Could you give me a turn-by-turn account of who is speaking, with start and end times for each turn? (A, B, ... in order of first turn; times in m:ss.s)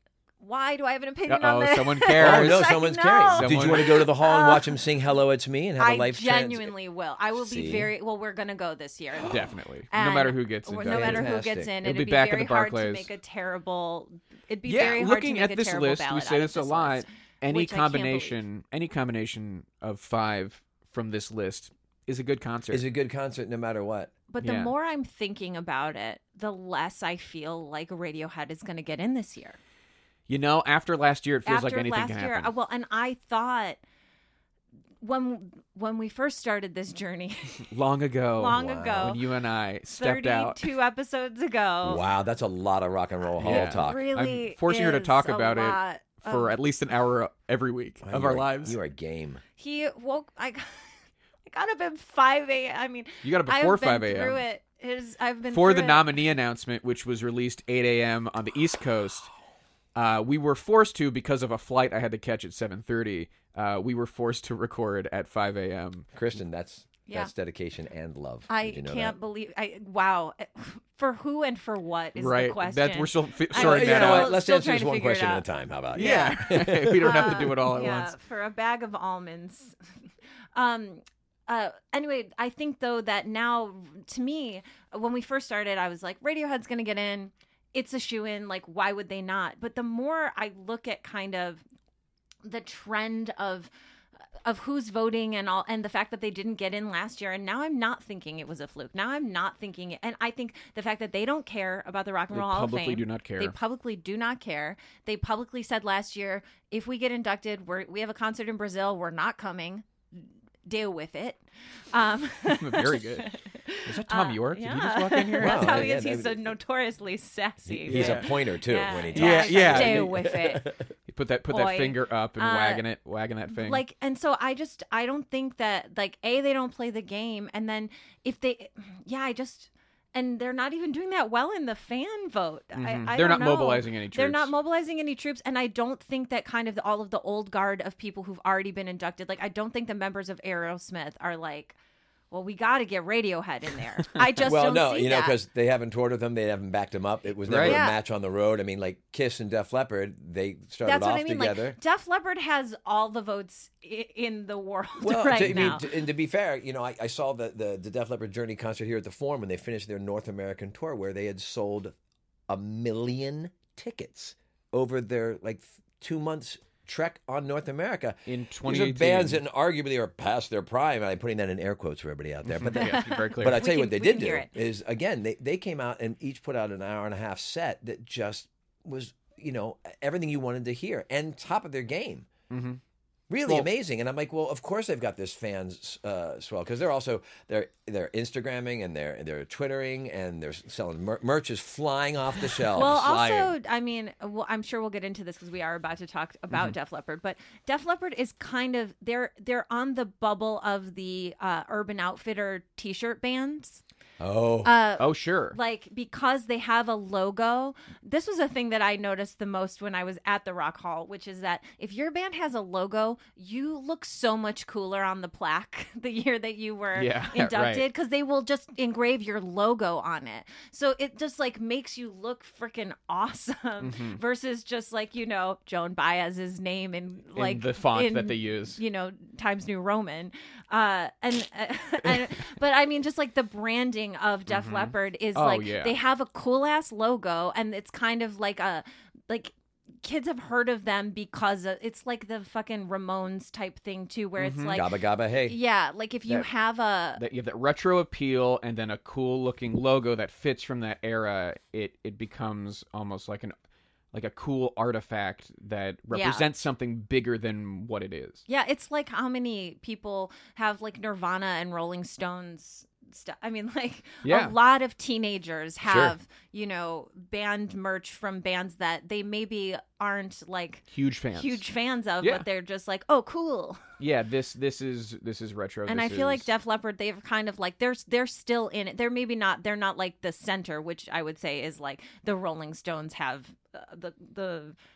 0:00.4-0:04.8 A
0:01.3-0:02.7 B
0:02.2-0:06.7 C
0:03.3-0:04.0 B
0:05.8-0:09.4 A
0:07.3-0:07.9 C
0:09.2-0:09.4 C
0:09.3-0:11.3 B
0:09.9-0:18.4 A
0:10.9-0:11.7 C
0:11.8-0:13.1 B
0:14.6-0:22.8 B
0:22.7-0:24.1 C
0:24.3-0:29.6 A
0:24.4-0:24.7 B
0:30.3-0:32.5 B
0:31.4-0:33.8 A
0:35.0-0:37.7 A
0:37.7-0:40.7 B
0:38.4-0:39.2 A
0:38.5-0:39.1 C
0:39.9-0:42.0 A
0:41.8-0:44.0 C
0:43.4-0:46.5 A
0:43.4-0:48.8 B
0:48.0-0:49.4 C
0:49.6-0:50.9 A
0:51.4-0:56.1 A
0:53.2-0:54.4 B
0:55.5-0:59.3 B
0:59.9-1:06.1 B
1:06.1-1:09.2 C
1:08.5-1:19.8 A
1:12.2-1:14.3 B
1:13.5-1:17.5 C
1:15.9-1:18.1 B
1:20.5-1:31.6 A
1:32.4-1:33.7 A
1:34.4-1:49.9 A
1:42.3-1:43.5 B
1:50.6-2:00.7 A
1:52.5-1:53.3 B
1:53.8-1:55.9 B
1:55.4-1:56.4 C
1:57.6-2:00.8 C
1:57.9-1:58.3 B
1:59.1-2:00.1 B
2:01.1-2:03.8 B
2:01.5-2:02.8 A
2:03.5-2:21.8 A
2:12.8-2:14.5 B
2:22.3-2:25.4 A
2:24.4-2:31.8 C
2:27.4-2:27.8 B
2:27.6-2:28.0 A
2:30.8-2:35.9 A
2:35.0-2:41.9 C
2:42.5-3:02.3 C
2:48.3-2:49.4 B
2:52.4-2:53.6 B
2:52.7-2:54.5 A
3:02.5-3:02.8 B
3:03.3-3:13.5 C
3:12.8-3:23.8 A
3:12.9-3:13.1 B
3:24.2-3:24.7 C
3:24.6-4:07.2 A
3:25.0-3:25.6 B
3:36.9-3:37.8 B
3:43.8-3:44.2 B
3:47.3-3:48.8 B
3:54.5-3:56.0 B
4:04.4-4:04.8 B
4:04.7-4:05.6 C
4:07.2-4:13.5 B
4:14.1-4:18.4 B
4:16.1-4:16.4 A
4:18.5-4:30.8 A
4:24.2-4:24.5 B
4:25.8-4:26.1 C
4:30.9-4:31.6 B
4:31.3-4:33.8 A
4:34.0-4:36.5 B
4:35.9-4:44.8 A